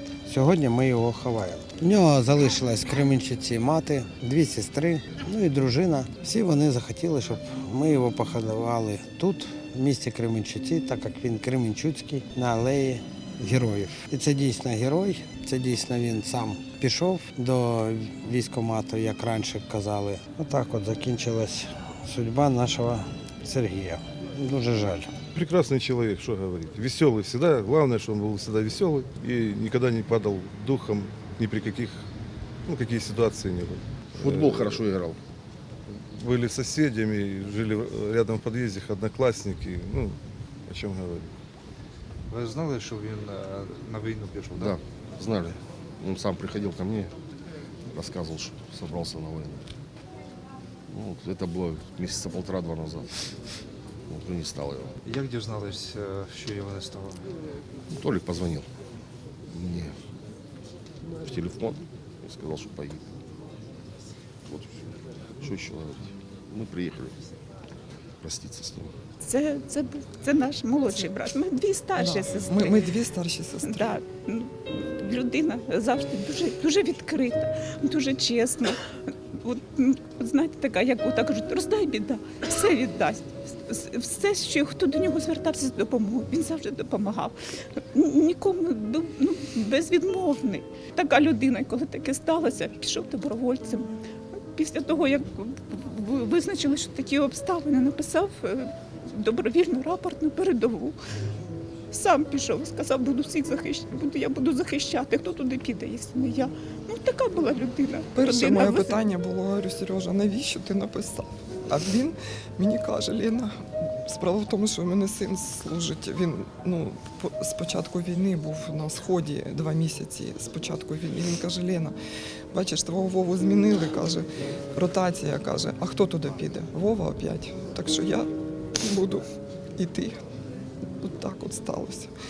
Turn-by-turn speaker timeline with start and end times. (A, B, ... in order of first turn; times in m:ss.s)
0:00.2-0:25.1 A
0:25.3-0:32.0 B
0:32.7-0:34.8 B
0:34.2-0:35.2 C
0:36.0-0:41.3 B
0:42.3-0:44.8 D
0:44.5-0:47.1 C
0:47.9-0:49.7 C
0:50.9-0:53.4 C
0:54.1-0:55.0 C
0:55.1-0:57.3 D
0:57.9-0:58.7 C
0:59.5-0:59.9 C
1:01.2-1:03.1 C
1:04.5-1:07.2 C
1:08.2-1:08.9 C
1:09.2-1:12.9 E
1:12.0-1:14.0 F
1:13.6-1:34.0 E
1:34.5-1:41.0 E
1:41.9-1:49.1 E
1:48.2-2:02.0 F
2:02.5-2:09.3 F
2:09.8-2:10.2 F
2:11.0-2:12.1 F